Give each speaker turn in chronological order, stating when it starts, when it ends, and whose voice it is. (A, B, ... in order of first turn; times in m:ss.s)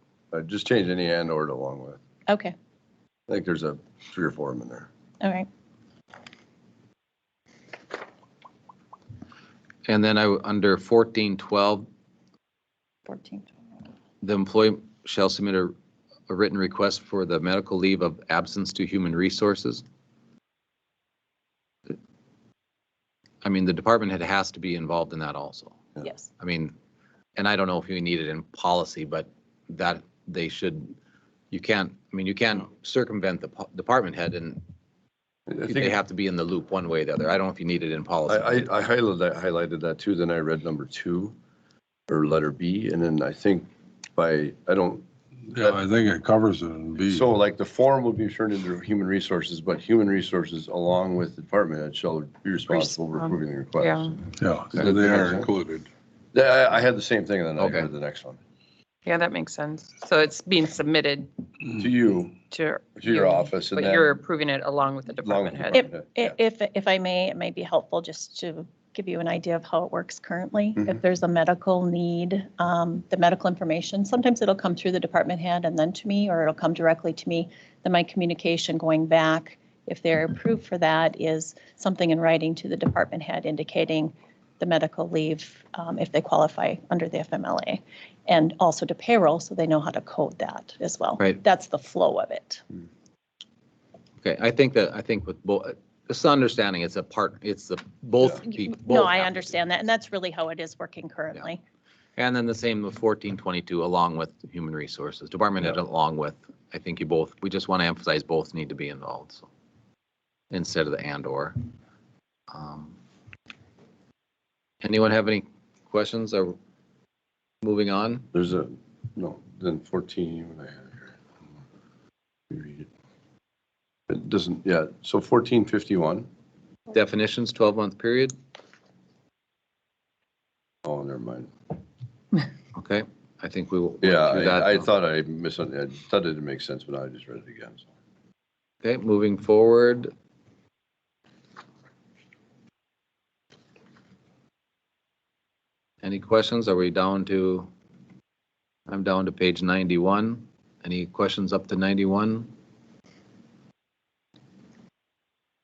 0:00.3-0:02.0 A
0:02.3-0:02.5 B
0:03.3-0:04.9 A
0:05.2-0:05.5 B
0:09.9-0:11.8 C
0:13.1-0:13.5 B
0:14.2-0:15.7 C
0:16.3-0:19.8 C
0:23.4-0:25.8 C
0:26.4-0:26.7 C
0:27.4-0:30.9 C
0:31.5-0:34.6 C
0:35.5-0:36.0 A
0:35.6-0:38.7 C
0:38.3-0:41.3 A
0:42.1-0:45.8 A
0:45.5-0:47.3 D
0:47.0-0:54.2 A
0:52.8-0:54.2 E
0:54.4-0:55.9 D
0:54.7-0:55.5 A
0:56.3-0:58.4 A
0:57.6-0:57.9 C
0:59.0-1:01.3 E
1:01.7-1:02.4 A
1:02.5-1:05.8 E
1:03.0-1:04.2 A
1:05.2-1:06.4 A
1:05.7-1:32.6 B
1:34.2-1:39.5 C
1:38.4-1:41.6 B
1:42.2-1:49.5 C
1:50.5-1:51.6 C
1:52.5-1:52.9 C
1:54.8-1:56.6 C
1:57.6-1:58.2 C
1:58.3-2:01.2 A
2:02.5-2:02.9 A
2:04.1-2:06.3 A
2:06.9-2:08.3 C
2:10.8-2:11.5 A
2:12.7-2:14.9 C
2:14.0-2:17.9 A
2:18.8-2:20.1 C
2:26.0-2:27.7 C
2:28.9-2:32.5 C